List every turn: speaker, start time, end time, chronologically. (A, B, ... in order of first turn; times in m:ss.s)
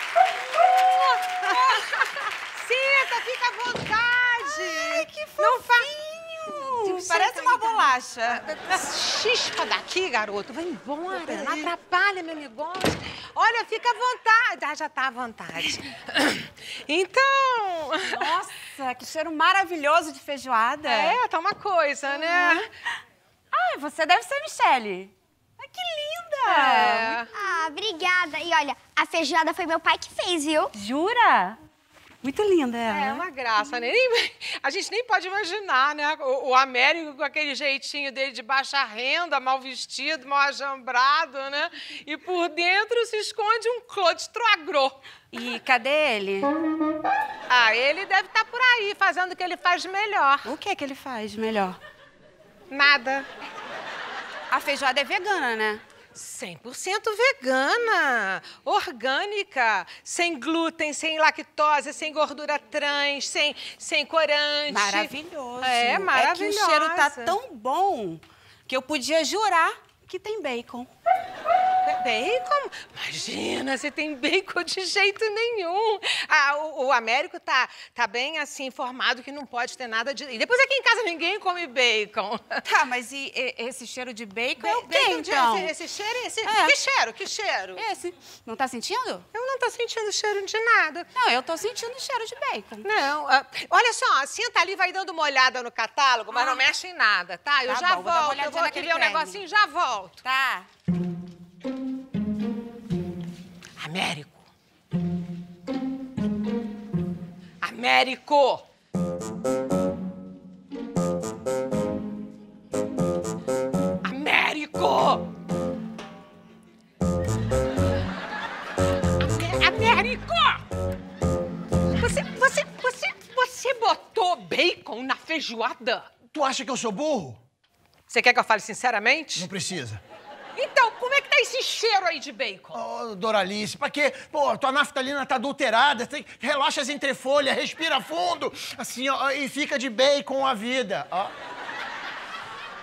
0:00.6-0:18.4 A
0:05.1-0:07.8 B
0:11.2-0:11.6 B
0:18.1-0:21.2 B
0:20.9-0:22.6 A
0:22.1-0:22.6 B
0:23.5-0:27.2 B
0:26.4-0:27.3 A
0:27.3-0:30.7 C
0:30.8-0:31.6 B
0:32.2-0:33.2 B
0:32.9-0:45.0 A
0:45.3-0:46.5 B
0:47.5-0:50.6 A
0:50.4-0:51.8 B
0:52.7-0:53.3 A
0:54.5-0:55.8 B
0:56.2-1:07.4 A
1:04.7-1:10.9 B
1:11.9-1:22.6 A
1:22.7-1:25.7 B
1:24.6-1:27.8 A
1:26.5-1:26.8 B
1:27.8-1:29.2 B
1:29.3-1:31.1 A
1:31.2-1:32.8 B
1:32.8-1:40.3 A
1:36.4-1:36.6 B
1:37.7-1:39.4 B
1:40.2-1:40.7 B
1:43.8-1:44.4 A
1:47.6-1:48.7 A
1:54.0-1:55.3 A
1:59.2-2:00.6 A
2:02.0-2:06.1 A
2:06.3-2:07.4 D
2:08.1-2:09.5 A
2:09.4-2:10.0 D
2:10.6-2:12.8 A
2:12.7-2:21.3 D